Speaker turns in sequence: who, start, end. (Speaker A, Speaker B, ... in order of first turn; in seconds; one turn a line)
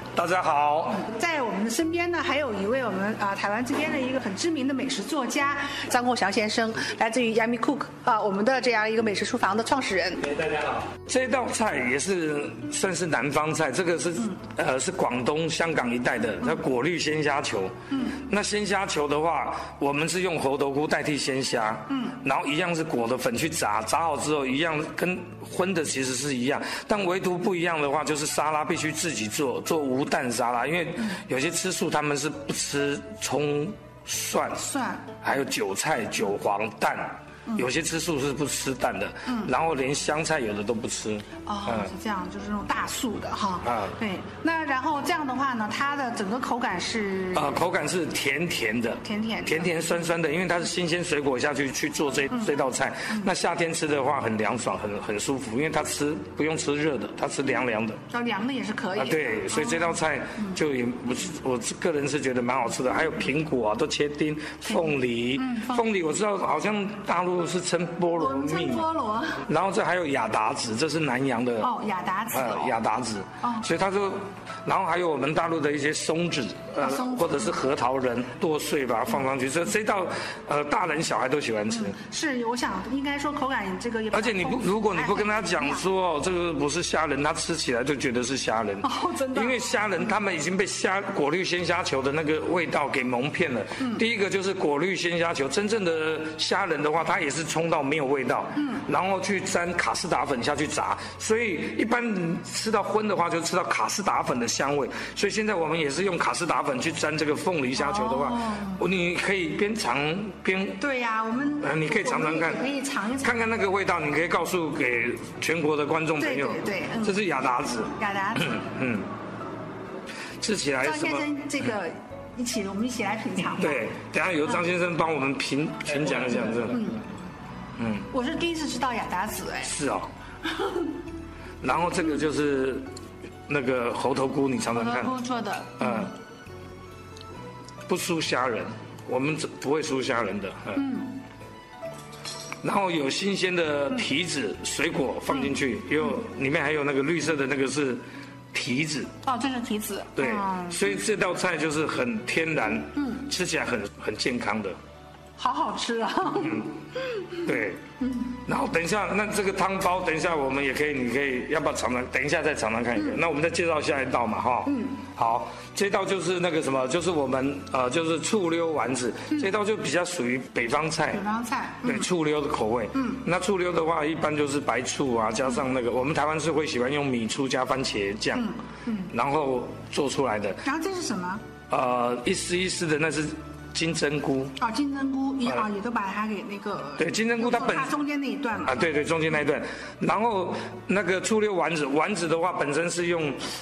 Speaker A: 0.1-1.0
Speaker B: 0.9-10.3
Speaker A: 10.3-17.7
Speaker B: 17.9-18.2
Speaker A: 18.2-34.6
Speaker B: 34.6-35.1
Speaker A: 35.2-41.9
Speaker B: 39.2-39.5
Speaker B: 41.4-47.5
Speaker A: 43.6-43.9
Speaker A: 47.3-58.0
Speaker B: 49.0-49.9
Speaker B: 58.1-60.6
Speaker A: 59.0-68.8
Speaker B: 64.7-65.8
Speaker B: 68.2-69.4
Speaker A: 69.5-71.7
Speaker B: 71.6-72.8
Speaker A: 72.3-81.9
Speaker B: 76.8-77.6
Speaker B: 81.7-85.8
Speaker A: 84.1-110.8
Speaker B: 88.8-90.0
Speaker B: 98.5-98.8
Speaker B: 107.8-108.8
Speaker B: 110.8-113.5
Speaker A: 111.6-112.6
Speaker A: 113.2-117.9
Speaker B: 116.2-117.3
Speaker B: 118.0-118.7
Speaker A: 118.5-119.1
Speaker A: 120.4-121.3
Speaker B: 120.8-123.9
Speaker A: 123.6-126.9
Speaker B: 126.6-127.0
Speaker A: 127.8-128.1
Speaker B: 128.1-129.7
Speaker A: 129.6-130.1
Speaker B: 130.5-130.9
Speaker A: 131.6-132.8
Speaker A: 133.5-135.1
Speaker B: 134.7-136.1
Speaker A: 135.8-136.1
Speaker A: 137.9-140.8
Speaker B: 140.7-141.2
Speaker A: 142.6-149.1
Speaker B: 149.2-150.8
Speaker A: 150.2-154.8
Speaker B: 152.9-153.3
Speaker B: 155.4-157.4
Speaker A: 157.4-157.8
Speaker B: 158.0-158.3
Speaker A: 158.4-171.2
Speaker B: 162.9-163.2
Speaker B: 164.7-165.0
Speaker B: 171.1-172.1
Speaker A: 171.8-178.4
Speaker B: 172.9-173.2
Speaker B: 178.3-179.1
Speaker A: 179.1-180.6
Speaker B: 180.6-181.4
Speaker A: 181.7-184.5
Speaker B: 184.6-188.9
Speaker A: 187.0-187.9
Speaker A: 188.6-193.4